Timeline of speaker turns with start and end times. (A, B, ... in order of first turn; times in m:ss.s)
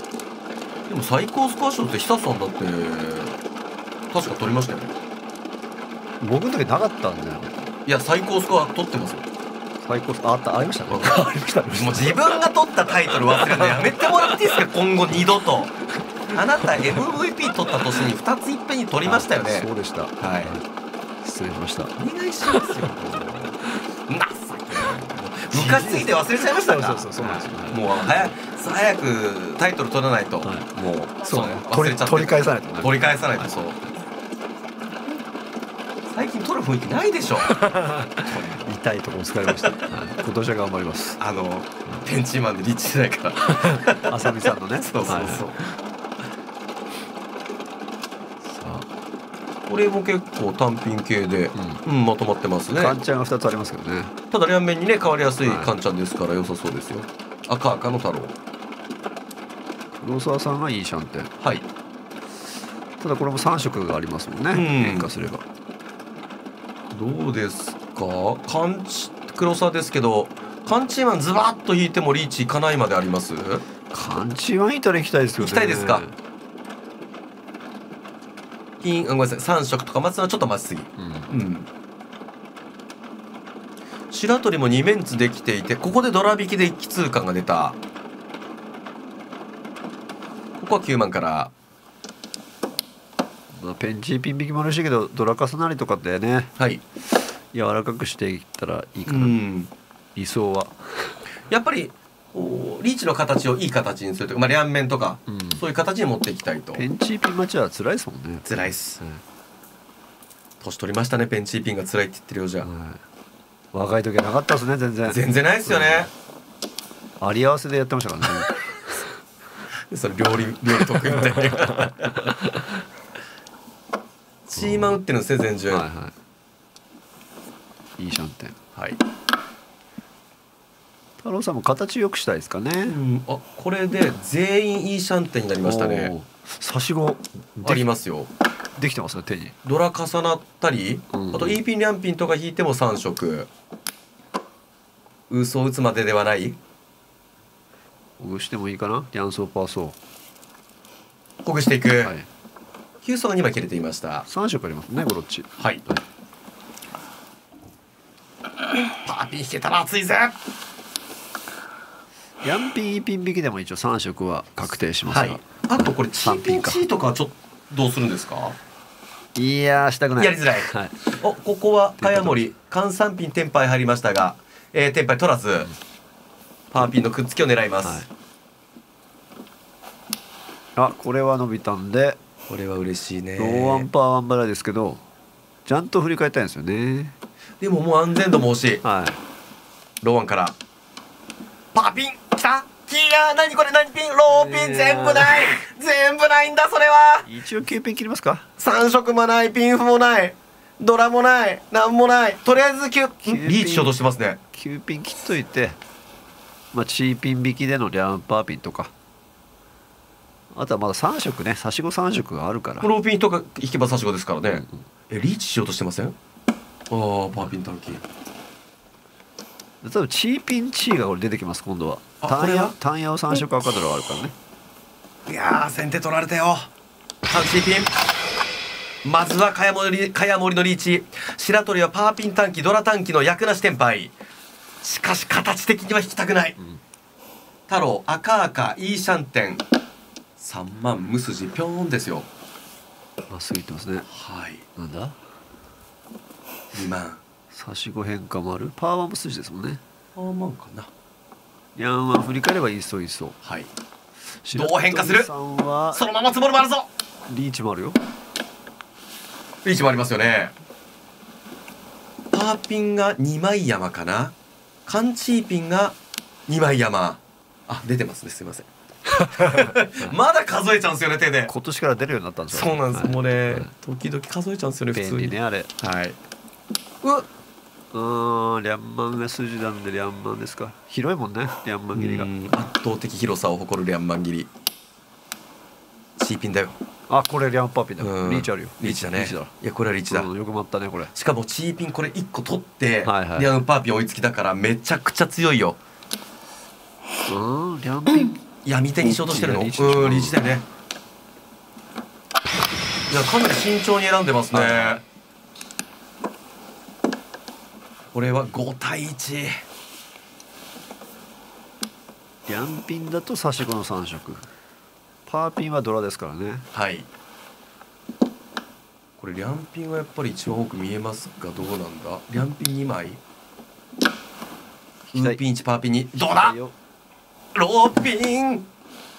0:00.9-0:03.4 A
0:04.1-0:04.9 A
0:06.2-0:07.6 B
0:07.8-0:09.2 A
0:09.8-0:12.5 B
0:10.9-0:15.7 A
0:13.1-0:14.2 B
0:16.3-0:19.7 A
0:19.0-0:20.6 B
0:20.2-0:20.6 A
0:21.2-0:21.9 B
0:22.0-0:23.5 A
0:22.5-0:22.9 B
0:24.1-0:33.8 A
0:25.5-0:28.0 B
0:30.4-0:30.7 B
0:31.2-0:33.8 B
0:36.1-0:37.6 A
0:37.5-0:41.2 B
0:41.2-0:44.2 A
0:43.7-0:45.5 B
0:44.7-0:45.7 A
0:48.4-0:48.8 B
0:49.6-0:53.0 A
0:51.5-0:51.8 B
0:52.7-0:54.1 B
0:54.3-0:58.3 A
0:55.4-0:55.7 B
1:00.0-1:01.3 B
1:01.4-1:01.6 A
1:03.0-1:05.4 B
1:04.5-1:05.1 A
1:06.9-1:13.6 A
1:13.9-1:16.1 B
1:15.4-1:16.0 A
1:18.8-1:21.7 A
1:21.0-1:21.3 B
1:24.1-1:27.8 A
1:30.6-1:31.5 A
1:33.5-1:36.5 B
1:37.5-1:39.4 B
1:39.1-1:39.7 A
1:40.1-1:41.2 B
1:41.5-1:46.8 A
1:45.3-1:45.6 B
1:46.7-1:49.2 B
1:48.4-1:49.0 A
1:50.6-1:52.7 A
1:52.6-1:53.0 B
1:53.7-1:56.1 B
1:55.0-1:56.1 A
1:57.2-1:58.6 B
1:59.9-2:02.3 A
2:04.5-2:05.9 A
2:04.6-2:05.0 B
2:05.7-2:06.1 B
2:08.0-2:08.6 B
2:11.2-2:13.0 B
2:12.9-2:16.1 A
2:15.6-2:17.8 B
2:17.6-2:18.3 A
2:18.8-2:19.5 B
2:19.6-2:23.5 A
2:21.1-2:21.6 B
2:25.3-2:26.6 A
2:28.2-2:30.0 B
2:31.4-2:32.1 A
2:32.0-2:32.3 B
2:33.0-2:34.2 A
2:34.2-2:36.0 B
2:38.9-2:40.4 A
2:42.4-2:46.8 B
2:45.1-2:48.6 A
2:49.3-2:51.0 B
2:50.2-2:55.7 A
2:52.0-2:52.4 B
2:56.7-2:58.0 A
3:00.8-3:02.2 B
3:02.5-3:03.9 A
3:03.4-3:05.0 B
3:05.6-3:07.1 B
3:07.6-3:08.8 A
3:08.8-3:09.2 B
3:10.0-3:10.6 A
3:11.7-3:17.3 A
3:14.3-3:15.4 B
3:17.2-3:18.4 B
3:18.6-3:24.4 A
3:23.2-3:23.9 B
3:24.5-3:25.8 B
3:26.7-3:28.9 B
3:30.5-3:32.9 B
3:32.8-3:36.2 A
3:34.4-3:34.8 B
3:36.9-3:38.0 A
3:39.8-3:44.3 B
3:42.2-3:42.7 A
3:45.3-3:46.7 A
3:47.3-3:47.9 A
3:49.0-3:54.1 A
3:54.8-3:56.6 A
3:57.7-3:59.6 A
4:00.4-4:02.3 A
4:03.3-4:04.1 B
4:04.1-4:04.6 A
4:04.8-4:05.2 B
4:06.7-4:07.2 A
4:07.5-4:09.8 B
4:10.2-4:10.9 A
4:11.8-4:13.4 B
4:13.4-4:13.7 A
4:14.4-4:16.0 B
4:14.5-4:15.3 A
4:15.9-4:16.9 A
4:17.3-4:18.0 B
4:19.6-4:20.5 A
4:22.3-4:24.3 A
4:24.8-4:26.0 A
4:26.5-4:28.7 A
4:29.4-4:31.5 A
4:31.5-4:33.7 B
4:32.5-4:36.2 A
4:34.9-4:35.7 B
4:37.9-4:42.3 B
4:41.9-4:44.5 A
4:46.2-4:46.8 A
4:47.1-4:49.5 B
4:48.0-4:50.3 A
4:50.1-4:51.1 B
4:51.1-4:55.8 A
4:53.0-4:53.5 B
4:57.3-4:58.4 B
4:58.6-5:00.6 A
4:59.0-5:00.4 B
5:03.1-5:05.0 A
5:04.5-5:05.0 B
5:08.1-5:09.6 A
5:12.5-5:14.5 B
5:15.2-5:16.6 B
5:16.7-5:17.1 A
5:19.2-5:23.2 A
5:25.1-5:25.4 B
5:25.1-5:26.5 A
5:26.1-5:26.7 B
5:27.5-5:28.7 A